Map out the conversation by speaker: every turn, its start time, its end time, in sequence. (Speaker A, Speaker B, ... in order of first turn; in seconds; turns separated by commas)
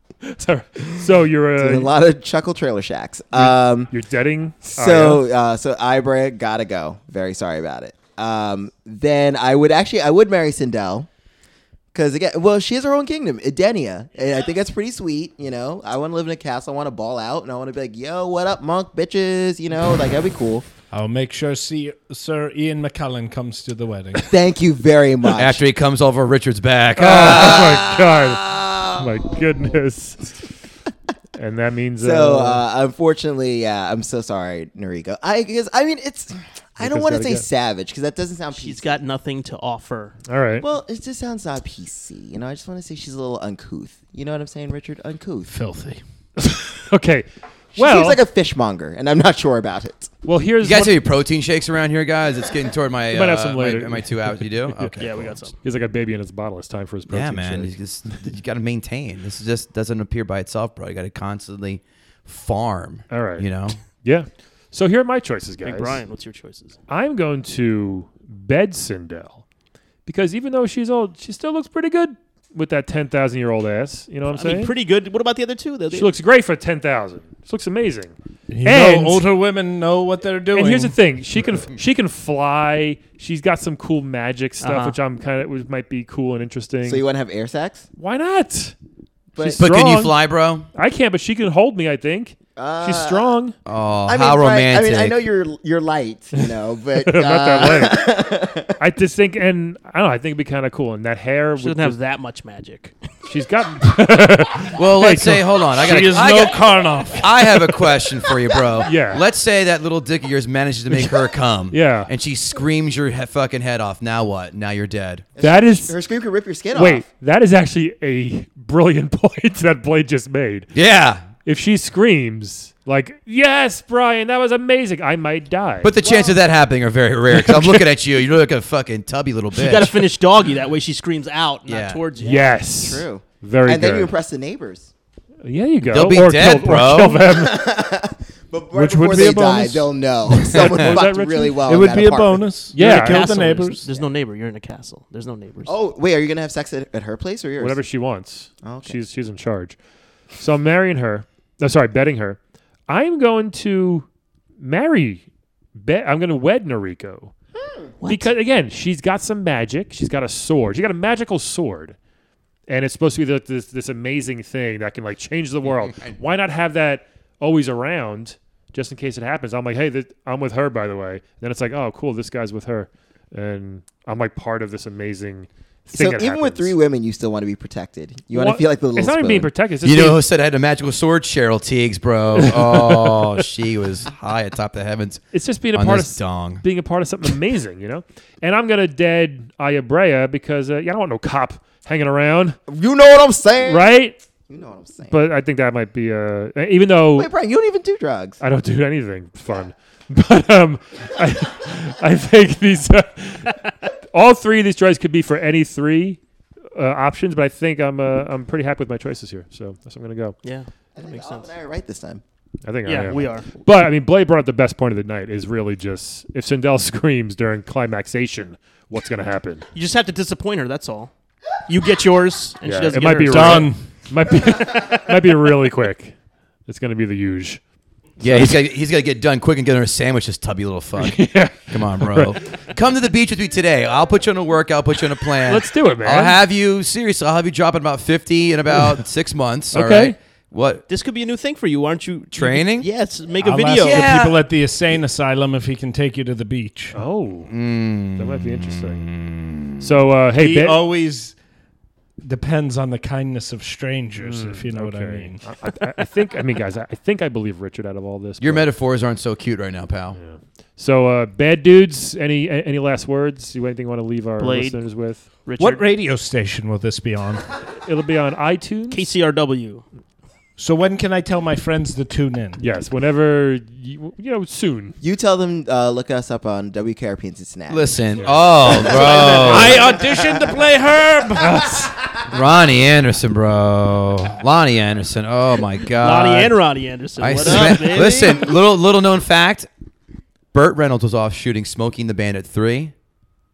Speaker A: 0.2-1.9, Speaker B: 1.6-3.9, Speaker A: 3.3-5.2, Speaker B: 4.7-11.1, Speaker B: 11.9-20.7, Speaker C: 20.9-24.3, Speaker B: 24.3-25.6, Speaker D: 25.3-28.3, Speaker A: 27.0-30.4, Speaker A: 31.4-32.6, Speaker B: 32.0-39.0, Speaker A: 36.8-37.5, Speaker E: 38.5-40.2, Speaker A: 40.3-40.6, Speaker B: 40.6-45.5, Speaker C: 45.5-46.0, Speaker A: 46.4-48.2, Speaker B: 47.8-50.1, Speaker A: 50.2-51.0, Speaker D: 50.6-55.4, Speaker A: 53.1-55.0, Speaker E: 55.0-55.6, Speaker A: 55.6-57.7, Speaker D: 57.1-63.8, Speaker A: 63.1-66.0, Speaker E: 65.6-66.8, Speaker A: 66.9-69.4, Speaker A: 70.1-74.7, Speaker E: 74.3-76.1, Speaker A: 75.9-79.3, Speaker C: 78.5-81.0, Speaker A: 80.5-87.0, Speaker E: 84.6-85.0, Speaker B: 86.8-87.8, Speaker A: 88.0-88.8, Speaker A: 89.4-90.2, Speaker D: 89.6-90.7, Speaker A: 90.7-93.5, Speaker B: 92.6-93.3, Speaker D: 93.7-95.2, Speaker B: 94.1-98.8, Speaker A: 97.0-98.1, Speaker A: 98.8-102.0, Speaker E: 101.6-103.0, Speaker A: 103.3-105.5, Speaker D: 104.8-106.6, Speaker C: 105.8-107.4, Speaker D: 107.2-115.2, Speaker A: 108.8-109.2, Speaker A: 111.7-112.1, Speaker B: 115.4-117.1, Speaker A: 115.4-116.0, Speaker A: 116.7-120.7, Speaker D: 120.7-121.2, Speaker A: 121.5-126.3, Speaker D: 125.8-130.0, Speaker A: 127.3-127.8, Speaker E: 129.5-132.6, Speaker D: 131.7-132.0, Speaker A: 132.2-134.1, Speaker B: 132.4-134.9, Speaker A: 135.4-137.7, Speaker D: 135.9-137.2, Speaker B: 137.1-142.5, Speaker A: 138.7-141.6, Speaker D: 140.5-141.0, Speaker C: 141.6-143.9, Speaker A: 142.7-143.4, Speaker E: 142.7-145.8, Speaker B: 145.7-147.8, Speaker A: 147.6-149.8, Speaker B: 148.6-149.0, Speaker A: 150.3-154.1, Speaker A: 154.6-157.3, Speaker B: 157.6-157.9, Speaker E: 158.0-158.3, Speaker A: 158.1-162.0, Speaker A: 162.7-176.8, Speaker B: 176.0-179.5, Speaker A: 178.3-180.2, Speaker D: 179.8-185.2, Speaker A: 182.4-183.3, Speaker A: 185.3-192.6, Speaker D: 185.7-186.6, Speaker B: 192.7-194.0, Speaker A: 193.6-194.2, Speaker B: 194.5-195.2, Speaker A: 195.1-197.3, Speaker B: 197.2-198.4, Speaker A: 198.4-206.2, Speaker A: 206.7-210.4, Speaker E: 210.4-211.5, Speaker B: 211.0-212.2, Speaker A: 212.6-219.7, Speaker E: 212.8-213.6, Speaker E: 219.8-221.1, Speaker E: 221.7-223.7, Speaker A: 222.6-227.6, Speaker C: 223.3-223.8, Speaker E: 224.5-225.1, Speaker D: 228.2-240.8, Speaker A: 228.2-228.5, Speaker A: 231.0-232.4, Speaker A: 235.4-236.4, Speaker A: 239.7-240.2, Speaker E: 240.9-244.2, Speaker D: 242.3-242.9, Speaker C: 243.4-247.0, Speaker D: 243.8-244.4, Speaker A: 246.9-249.1, Speaker D: 247.5-249.9, Speaker A: 249.8-250.8, Speaker C: 250.4-251.4, Speaker C: 252.2-255.4, Speaker A: 254.2-258.7, Speaker D: 258.4-260.2, Speaker A: 260.1-265.3, Speaker E: 264.4-265.8, Speaker C: 265.6-267.4, Speaker A: 267.8-269.1, Speaker E: 268.9-269.8, Speaker C: 270.6-272.6, Speaker A: 272.6-275.0, Speaker B: 275.0-280.5, Speaker D: 277.7-279.9, Speaker C: 278.8-281.6, Speaker A: 281.4-281.9, Speaker D: 282.3-286.6, Speaker E: 285.9-288.5, Speaker D: 287.2-289.7, Speaker D: 290.5-292.9